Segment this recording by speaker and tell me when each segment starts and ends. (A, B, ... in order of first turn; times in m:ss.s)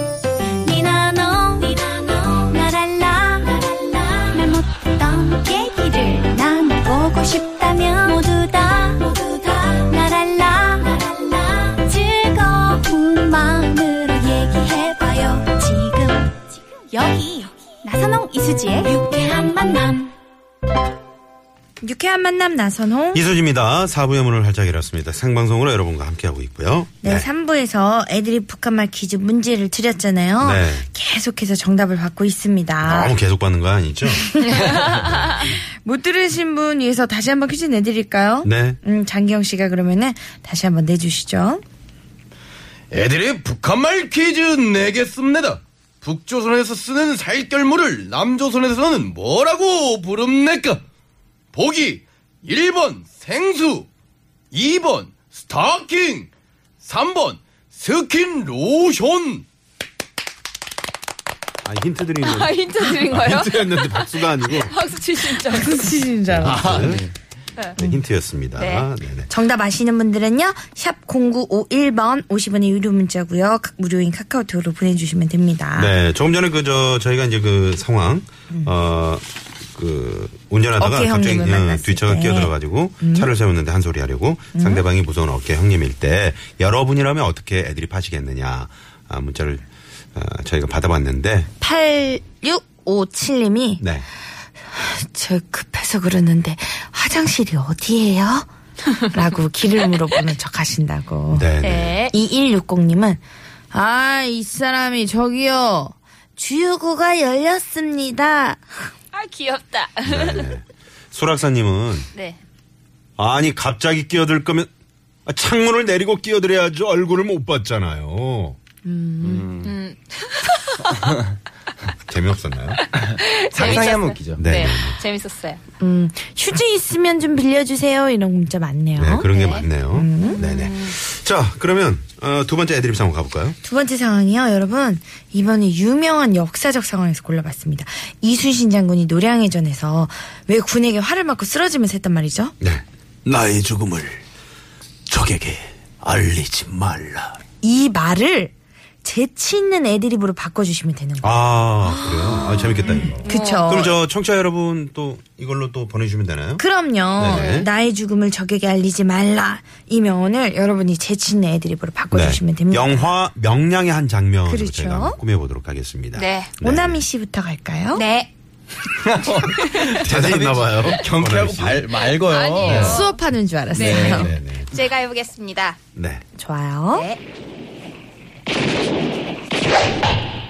0:00.6-0:20.1 A
0:21.8-0:23.2 B
0:23.1-0:27.3 C
0:27.0-0:33.2 B
0:30.4-0:30.9 C
0:32.8-0:35.4 C
0:34.1-0:34.8 B
0:34.6-0:34.8 D
0:35.4-0:41.6 B
0:38.4-0:38.8 C
0:42.9-0:50.8 E
0:51.5-0:53.9 E
0:54.5-0:56.3 E
0:56.8-0:59.4 E
1:01.6-1:04.7 C
1:02.2-1:06.0 D
1:05.4-1:07.0 B
1:06.2-1:07.0 C
1:06.4-1:07.1 E
1:07.8-1:09.3 C
1:08.6-1:08.9 D
1:09.3-1:15.9 B
1:15.7-1:31.5 C
1:20.8-1:23.3 B
1:24.5-1:24.8 B
1:31.6-1:33.8 B
1:33.8-1:34.0 C
1:34.7-1:38.5 B
1:39.1-1:41.5 B
1:41.3-1:42.0 C
1:41.6-1:42.1 D
1:42.1-1:48.7 B
1:49.1-1:50.5 D
1:50.0-1:52.1 C
1:52.1-1:52.4 D
1:53.2-1:54.7 C
1:55.2-1:58.6 C
1:58.8-1:59.5 B
1:59.2-1:59.8 E
1:59.6-2:01.2 D
2:02.1-2:02.8 C
2:03.1-2:05.6 D
2:03.5-2:04.5 E
2:04.3-2:05.0 C
2:05.8-2:09.3 B
2:08.9-2:13.6 C
2:09.3-2:10.9 D
2:09.9-2:10.4 B
2:13.6-2:22.5 B
2:22.6-2:24.2 C
2:25.1-2:27.4 C
2:27.6-2:34.0 B
2:31.2-2:37.7 C
2:33.2-2:33.8 D
2:36.6-2:43.1 B
2:37.2-2:37.6 D
2:42.1-2:47.0 C
2:44.4-2:45.2 B
2:46.1-2:46.5 D
2:46.6-2:48.0 B
2:47.9-2:48.3 D
2:49.0-2:53.0 E
2:50.0-2:51.9 C
2:52.2-2:55.8 D
2:52.6-2:53.0 C
2:52.7-2:54.3 B
2:53.7-2:54.2 E
2:53.9-2:54.7 C
2:56.0-2:56.2 C
2:56.4-2:57.1 B